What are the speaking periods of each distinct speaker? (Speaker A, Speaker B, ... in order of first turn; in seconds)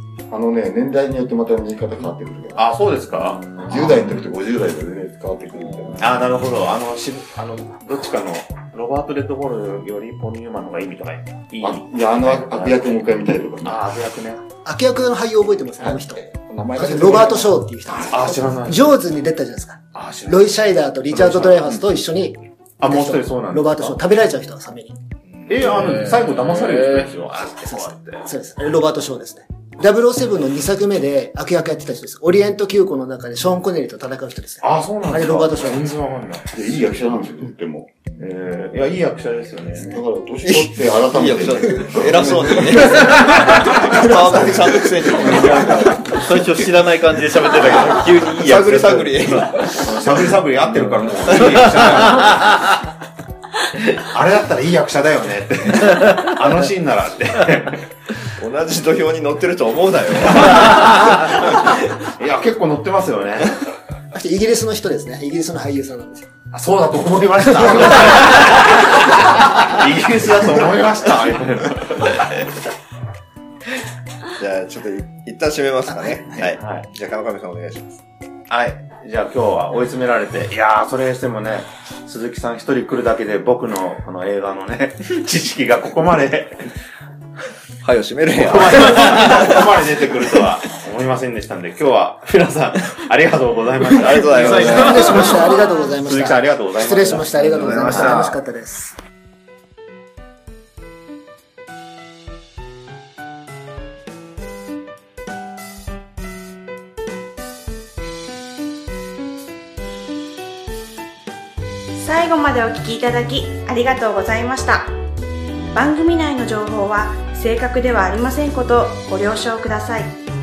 Speaker A: 0.3-2.7, 3.7-6.3, 11.6-13.9, 15.8-17.6, 36.5-38.2, 39.8-43.5
Speaker B: 2.6-3.4, 6.0-13.0, 13.6-14.4, 17.9-19.0, 19.9-20.6, 21.1-21.8, 22.8-24.0, 25.5-28.3, 34.6-36.7, 38.2-40.0, 49.8-52.6, 54.0-57.8, 60.4-63.6, 66.5-72.5, 76.5-76.9, 78.5-86.7, 88.3-98.3
Speaker C: 3.3-4.0, 5.6-6.0, 45.3-52.5
Speaker D: 14.6-25.0, 27.6-36.0, 64.1-66.3, 67.6-68.0, 94.3-99.0
Speaker E: 40.5-46.3, 47.6-49.8, 58.4-60.7, 74.4-78.0, 87.8-89.8, 93.8-95.4, 97.4-98.4
Speaker F: 112.0-115.0, 115.7-120.2